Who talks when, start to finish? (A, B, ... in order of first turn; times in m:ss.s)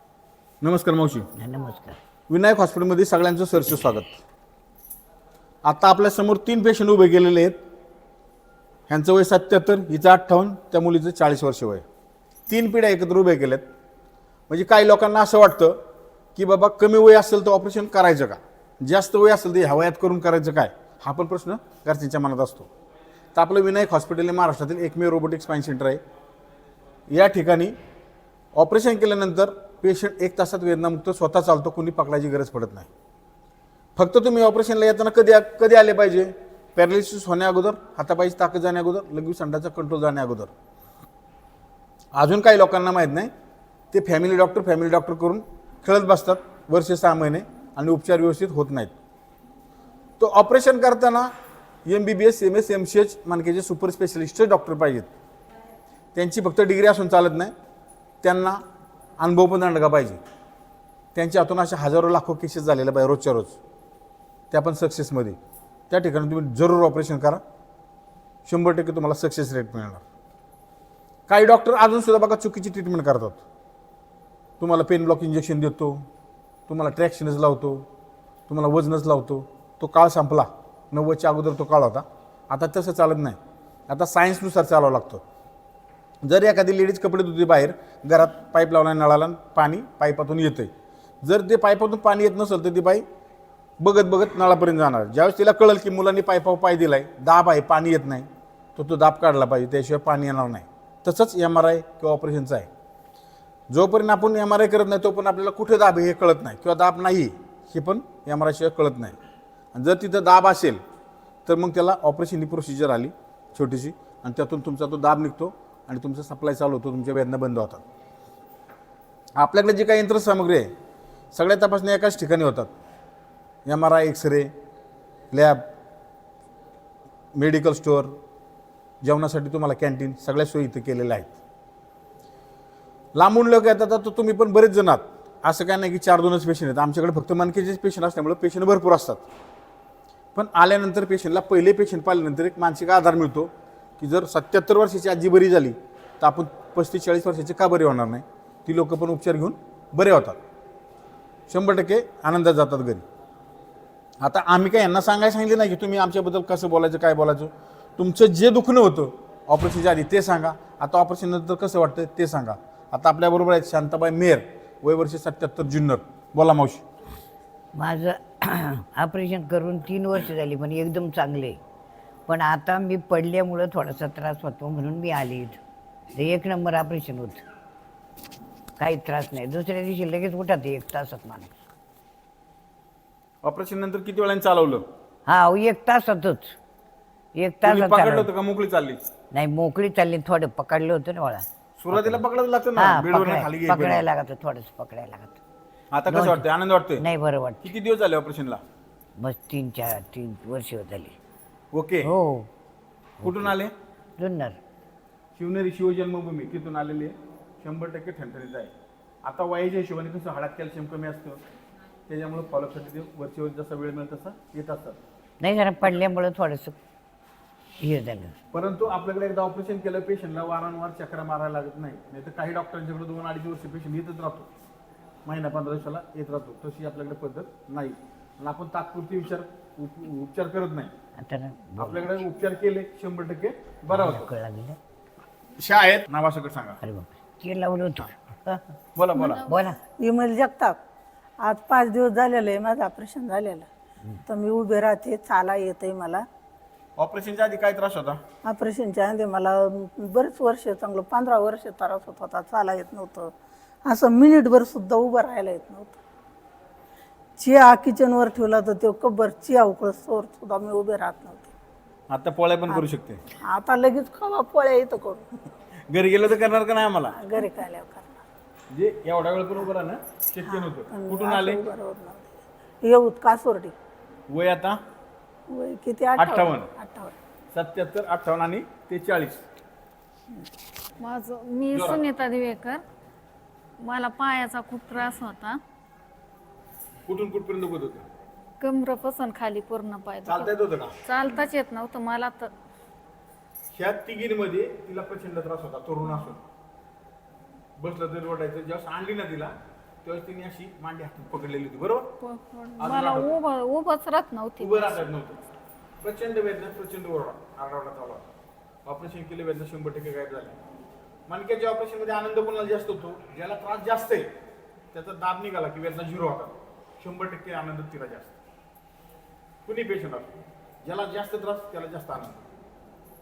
0:00.6-0:01.3 A
0:01.3-0:02.0 B
0:02.3-0:04.2 A
0:05.6-0:07.6 A
0:08.9-0:11.8 A
0:12.5-0:13.6 A
0:14.5-0:15.8 A
0:16.4-0:22.7 A
0:23.3-0:26.0 A
0:27.1-0:27.8 A
0:28.5-0:32.9 A
0:34.0-0:40.5 A
0:42.1-0:43.3 A
0:43.9-0:48.9 A
0:50.2-0:51.3 A
0:51.8-0:55.1 A
0:56.1-0:57.5 A
0:58.2-0:58.6 A
0:59.2-1:00.2 A
1:01.1-1:03.6 A
1:04.5-1:05.4 A
1:05.9-1:07.4 A
1:08.4-1:10.0 A
1:11.3-1:13.4 A
1:14.6-1:16.0 A
1:16.7-1:17.8 A
1:18.5-1:23.4 A
1:23.9-1:25.2 A
1:26.2-1:30.7 A
1:31.2-1:33.0 A
1:33.8-1:42.7 A
1:43.7-1:49.2 A
1:49.7-1:50.8 A
1:51.4-1:57.8 A
1:59.4-2:00.7 A
2:01.3-2:02.7 A
2:03.6-2:04.5 A
2:05.3-2:05.6 A
2:07.3-2:08.2 A
2:09.0-2:11.4 A
2:13.1-2:19.2 A
2:20.3-2:30.4 A
2:31.5-2:33.0 A
2:34.2-2:46.8 A
2:47.7-2:51.6 B
2:52.3-2:55.6 B
2:56.1-2:57.4 B
2:58.8-3:01.5 B
3:03.4-3:04.8 A
3:05.3-3:06.6 B
3:07.4-3:08.3 B
3:07.6-3:09.0 A
3:09.3-3:12.2 B
3:11.8-3:14.0 A
3:12.8-3:15.4 B
3:15.9-3:17.0 A
3:16.1-3:17.7 B
3:17.6-3:18.6 A
3:19.2-3:21.2 B
3:21.7-3:22.1 A
3:22.0-3:22.5 B
3:23.2-3:23.5 B
3:23.2-3:23.7 A
3:24.2-3:24.6 B
3:25.4-3:28.7 A
3:29.2-3:31.4 A
3:32.1-3:35.0 A
3:35.4-3:36.8 B
3:37.8-3:38.3 B
3:38.5-3:44.5 A
3:45.2-3:50.9 A
3:51.2-3:52.2 B
3:51.8-3:54.3 A
3:53.9-3:54.8 B
3:55.6-3:56.8 A
3:56.8-3:58.6 B
3:58.9-3:59.4 A
3:59.2-3:59.6 C
3:59.4-3:59.8 B
4:00.0-4:00.8 D
4:01.4-4:03.7 D
4:04.3-4:06.2 D
4:07.0-4:08.2 A
4:08.4-4:13.3 D
4:13.8-4:16.0 D
4:17.4-4:21.5 D
4:22.1-4:23.2 A
4:23.4-4:25.3 D
4:25.9-4:27.2 A
4:27.1-4:28.2 D
4:28.7-4:31.6 A
4:30.4-4:33.7 D
4:34.3-4:34.8 A
4:35.5-4:37.1 D
4:36.2-4:36.7 A
4:37.5-4:39.4 A
4:41.0-4:42.8 C
4:41.7-4:42.0 A
4:43.8-4:45.6 C
4:47.0-4:48.0 A
4:48.6-4:50.5 C
4:50.2-4:51.0 A
4:51.0-4:52.5 C
4:53.7-4:56.4 A
4:57.8-5:02.1 A
5:02.2-5:05.1 C
5:02.8-5:03.3 A
5:04.6-5:05.4 A
5:06.0-5:08.3 A
5:08.8-5:10.6 A
5:11.3-5:14.3 A
5:14.9-5:18.4 A
5:19.6-5:20.3 A
5:20.8-5:22.4 A